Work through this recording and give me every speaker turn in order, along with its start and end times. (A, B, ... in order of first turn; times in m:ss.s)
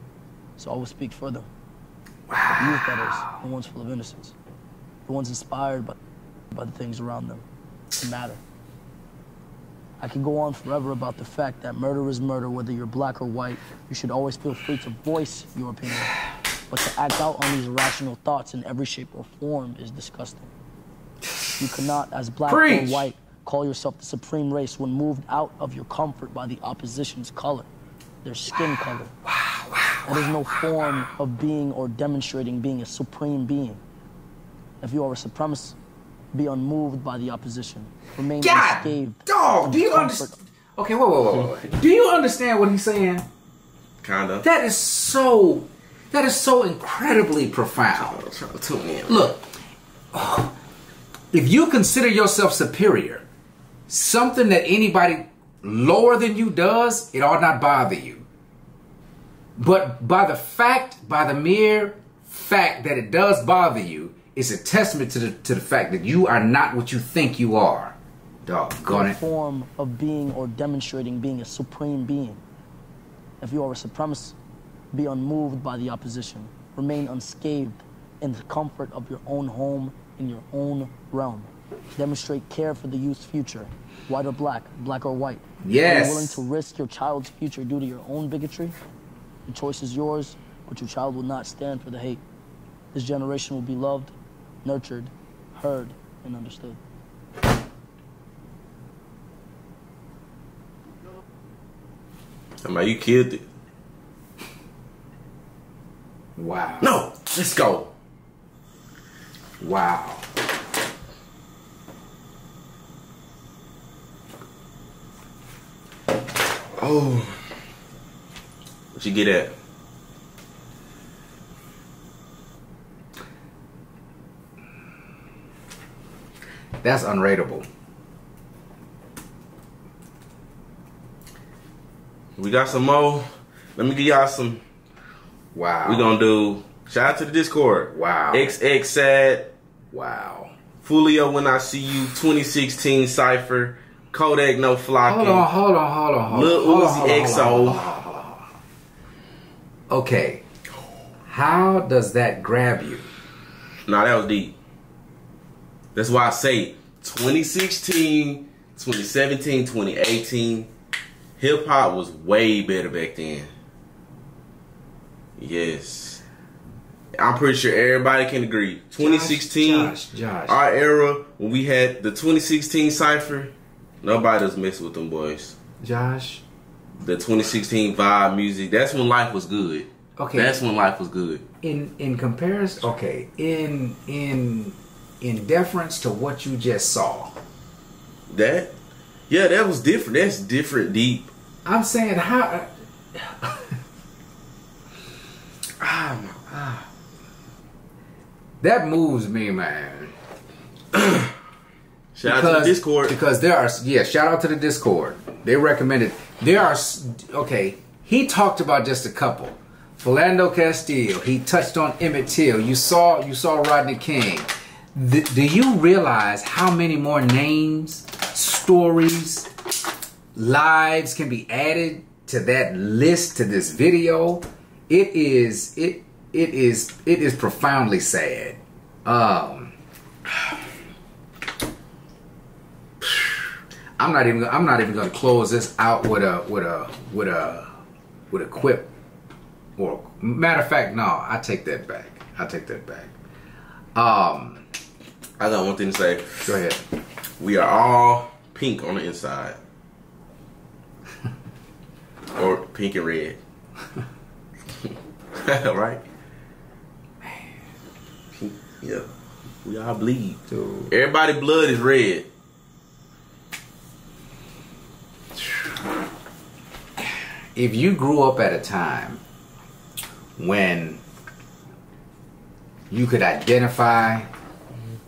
0:00.6-0:01.5 A
0:02.3-0:03.3 B
0:02.6-0:04.3 A
0:05.0-0:06.0 A
0:06.5-0:08.4 A
0:10.0-0:20.5 A
0:21.6-0:27.7 A
0:22.5-0:23.1 B
0:28.2-0:29.1 A
0:29.2-0:31.1 B
0:30.0-0:33.8 A
0:34.8-0:35.8 A
0:36.3-0:40.4 A
0:38.4-0:43.2 B
0:44.0-0:44.4 C
0:44.4-0:48.2 B
0:47.9-0:49.3 C
0:49.1-0:49.4 B
0:50.1-0:50.5 B
0:51.3-0:53.2 B
0:53.9-0:58.2 B
0:59.6-1:09.2 B
1:08.8-1:12.4 A
1:13.4-1:14.4 A
1:14.9-1:28.7 A
1:25.6-1:26.4 B
1:29.5-1:32.2 A
1:32.9-1:36.8 A
1:42.6-1:43.4 C
1:46.4-1:46.9 B
1:46.8-1:47.9 C
1:49.6-1:50.2 B
1:56.8-1:57.4 C
1:58.9-1:59.5 C
2:06.8-2:07.6 B
2:12.4-2:14.6 C
2:15.5-2:16.1 B
2:15.8-2:19.5 C
2:17.9-2:18.5 B
2:19.9-2:20.5 B
2:20.8-2:25.5 C
2:25.0-2:28.4 B
2:26.3-2:27.9 C
2:29.9-2:30.4 B
2:31.3-2:33.1 B
2:33.8-2:34.5 C
2:35.9-2:40.7 C
2:41.4-2:43.5 C
2:45.4-2:46.2 C
2:47.2-2:49.9 C
2:49.0-2:50.6 B
2:50.5-2:55.6 C
2:55.8-2:56.4 B
2:57.0-3:01.4 C
3:00.2-3:00.5 B
3:01.6-3:07.4 B
3:08.3-3:08.7 C
3:09.3-3:11.3 C
3:11.6-3:13.7 B
3:15.8-3:16.8 C
3:18.6-3:20.1 B
3:20.9-3:21.3 C
3:22.1-3:23.2 C
3:22.2-3:39.5 B
3:40.3-3:49.7 B
3:53.0-3:53.5 B
3:54.0-3:57.7 B
3:58.3-3:58.9 B
3:59.8-4:03.1 B
4:03.9-4:04.6 B
4:05.4-4:06.5 C
4:06.4-4:06.8 B
4:07.4-4:09.6 C
4:12.3-4:13.4 C
4:14.9-4:16.0 C
4:18.3-4:19.1 C
4:19.6-4:22.3 C
4:20.5-4:20.9 B
4:27.6-4:29.2 B
4:30.4-4:31.0 B
4:32.9-4:34.3 B